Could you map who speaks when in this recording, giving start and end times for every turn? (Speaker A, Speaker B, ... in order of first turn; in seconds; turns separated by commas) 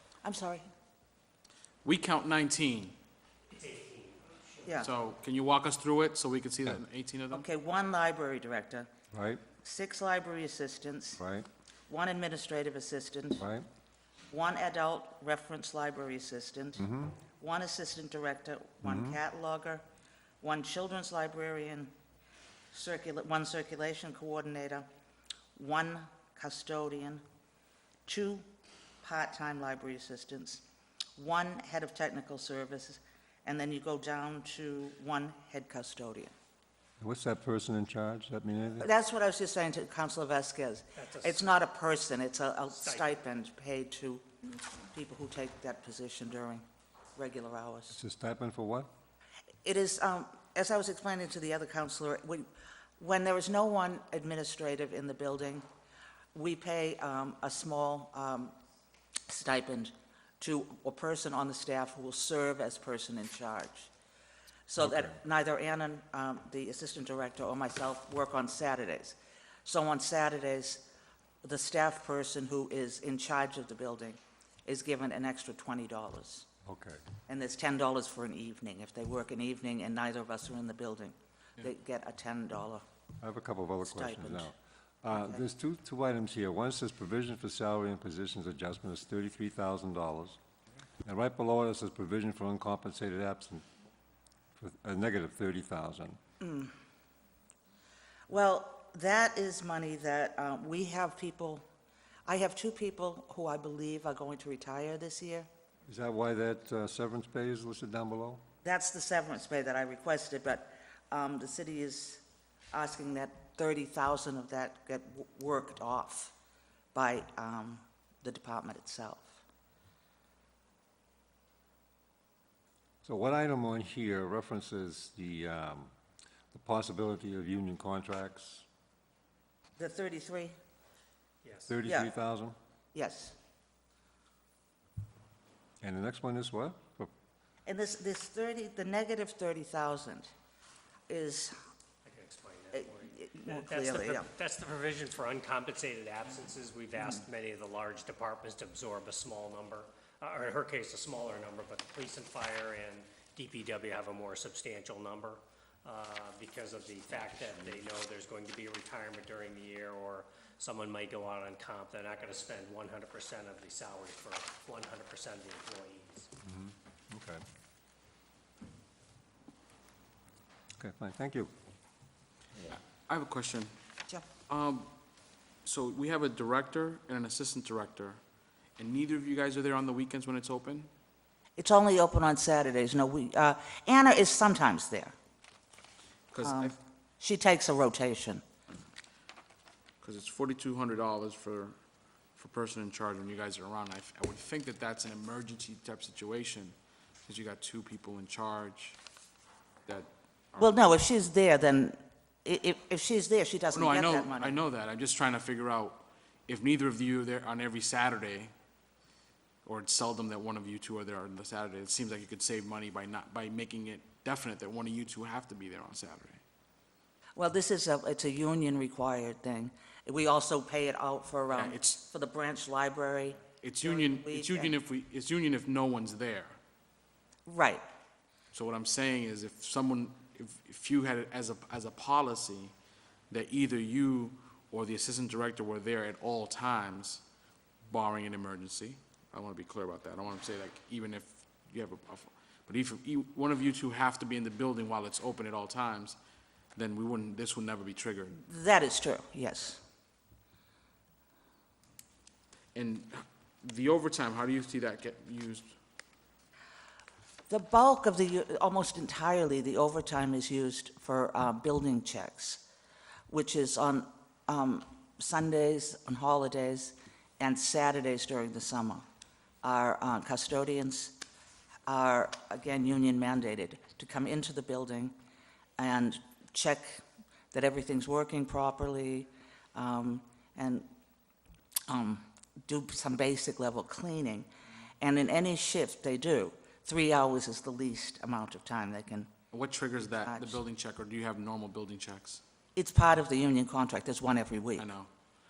Speaker A: 0.2-0.7, Speaker B: 1.8-3.0, Speaker C: 3.5-4.7, Speaker A: 4.7-4.9, Speaker B: 4.8-7.5, Speaker A: 7.3-8.9, Speaker D: 9.1-9.4, Speaker A: 9.6-11.2, Speaker D: 11.2-11.5, Speaker A: 11.9-13.4, Speaker D: 13.4-13.7, Speaker A: 14.3-19.8, Speaker D: 16.8-17.2, Speaker D: 18.8-19.2, Speaker A: 20.4-21.9, Speaker A: 22.7-24.9, Speaker A: 25.6-27.2, Speaker A: 28.1-28.4, Speaker A: 29.0-30.6, Speaker A: 31.2-36.3, Speaker D: 37.0-38.9, Speaker A: 38.8-46.6, Speaker C: 40.9-41.5, Speaker C: 42.8-43.1, Speaker A: 47.2-48.0, Speaker D: 47.9-48.9, Speaker A: 49.6-52.5, Speaker A: 53.0-55.6, Speaker A: 56.3-58.5, Speaker A: 59.3-63.9, Speaker A: 64.7-70.9, Speaker D: 64.8-65.1, Speaker A: 71.4-76.5, Speaker D: 76.6-77.0, Speaker A: 77.3-82.8, Speaker D: 83.2-90.4, Speaker A: 83.8-84.5, Speaker A: 85.1-85.4, Speaker D: 91.0-93.7, Speaker D: 94.6-96.2, Speaker A: 96.4-96.7, Speaker A: 98.3-101.6, Speaker A: 102.3-105.5, Speaker D: 105.9-108.4, Speaker A: 108.6-116.3, Speaker A: 116.9-119.4, Speaker D: 123.0-125.9, Speaker D: 126.5-128.7, Speaker A: 129.8-130.6, Speaker C: 131.4-131.8, Speaker D: 131.7-132.6, Speaker A: 131.8-132.1, Speaker A: 132.9-133.4, Speaker D: 135.8-137.1, Speaker A: 137.7-140.3, Speaker A: 141.1-141.5, Speaker C: 142.0-166.3, Speaker A: 142.7-144.3, Speaker A: 147.0-147.2, Speaker D: 166.4-167.4, Speaker D: 170.8-171.5, Speaker B: 172.6-173.7, Speaker B: 174.5-174.9, Speaker B: 175.7-178.2, Speaker B: 178.8-180.9, Speaker A: 181.6-185.1, Speaker B: 186.3-186.7, Speaker A: 186.4-188.4, Speaker B: 190.0-191.8, Speaker B: 192.4-196.8, Speaker B: 197.3-199.0, Speaker B: 199.9-200.7, Speaker A: 200.6-204.6, Speaker B: 203.7-208.5, Speaker B: 209.7-216.4, Speaker A: 217.4-224.8, Speaker B: 221.5-222.0, Speaker B: 223.6-226.6, Speaker A: 227.5-227.8, Speaker B: 228.5-232.7, Speaker B: 233.3-237.2, Speaker B: 237.9-246.2, Speaker B: 246.8-248.4, Speaker A: 248.3-249.8, Speaker B: 252.8-255.8, Speaker A: 257.5-262.6, Speaker A: 263.3-269.0, Speaker A: 269.6-271.2, Speaker A: 271.9-275.1, Speaker A: 275.8-280.9, Speaker A: 281.9-284.5, Speaker A: 285.0-289.3, Speaker B: 289.5-292.4, Speaker A: 290.2-290.6, Speaker A: 292.8-294.9, Speaker B: 294.8-295.1